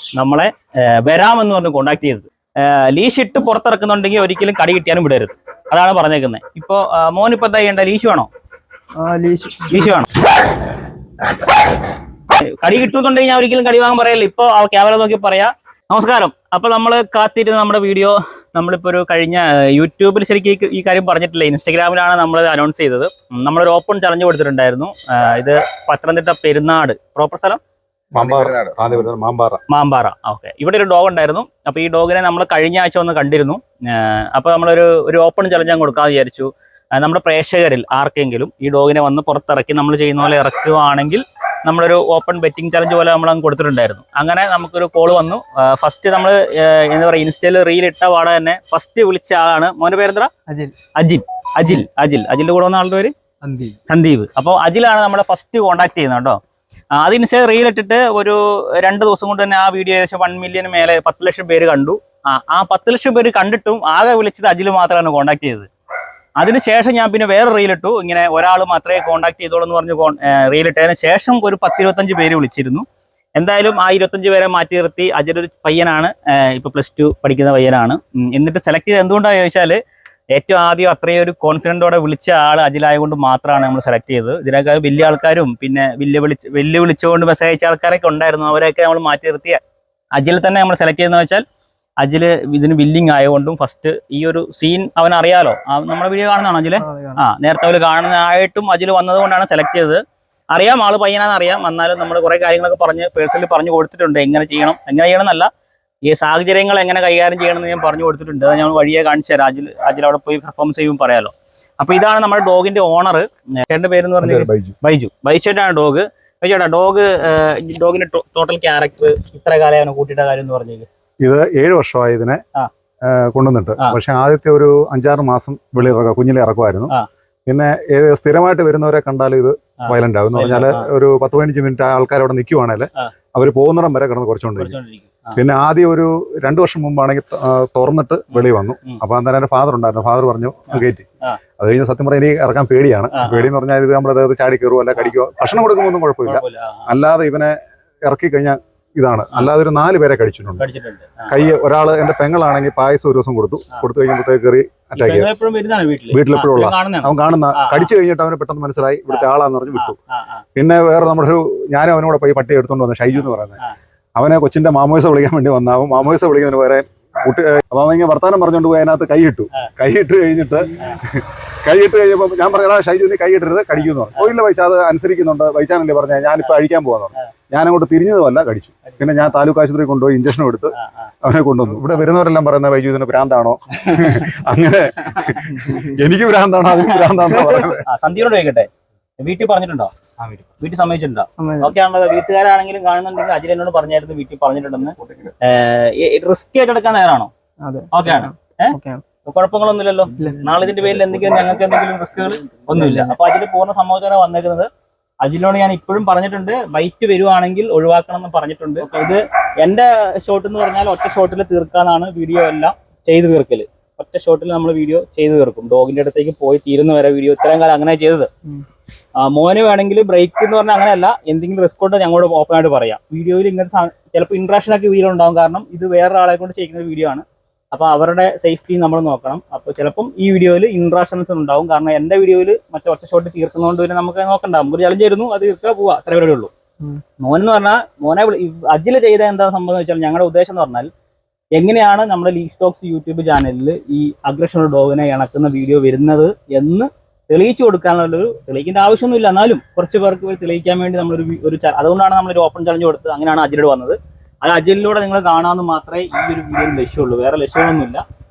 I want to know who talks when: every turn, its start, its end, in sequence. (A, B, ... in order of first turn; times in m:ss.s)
0:00.1-0:08.3 A
0:09.0-0:09.9 B
0:09.7-0:10.1 A
0:12.3-0:27.6 A
0:28.1-0:29.6 C
0:29.7-0:50.3 A
0:50.5-0:50.7 B
0:51.0-0:53.1 A
0:53.4-0:53.8 B
0:53.8-0:56.4 A
0:56.9-1:05.7 A
1:06.4-1:12.8 A
1:13.4-1:19.8 A
1:20.3-1:29.6 A
1:30.1-1:31.4 A
1:32.0-1:45.5 A
1:36.8-1:37.2 B
1:46.0-2:00.9 A
1:54.2-1:54.8 C
2:01.2-2:02.4 C
2:03.0-2:06.9 C
2:07.5-2:14.7 C
2:09.8-2:10.9 A
2:14.6-2:15.4 A
2:15.3-2:21.0 C
2:18.3-2:19.0 A
2:20.7-2:21.4 A
2:21.6-2:30.6 C
2:23.1-2:23.5 A
2:26.2-2:26.9 A
2:30.6-2:31.3 A
2:31.3-2:35.3 C
2:34.9-2:37.9 A
2:36.1-2:40.0 C
2:39.1-2:40.4 A
2:40.6-2:43.6 C
2:43.1-2:43.8 A
2:44.2-3:07.8 C
3:00.8-3:01.1 A
3:03.8-3:04.3 A
3:05.0-3:05.7 A
3:05.6-3:05.9 B
3:06.7-3:09.9 A
3:10.6-3:17.3 A
3:11.4-3:11.7 B
3:17.6-3:19.0 B
3:17.9-3:24.7 A
3:20.2-3:20.4 B
3:22.7-3:23.1 B
3:25.2-3:38.3 A
3:39.2-3:56.5 A
3:57.2-4:00.9 A
4:01.5-4:18.0 A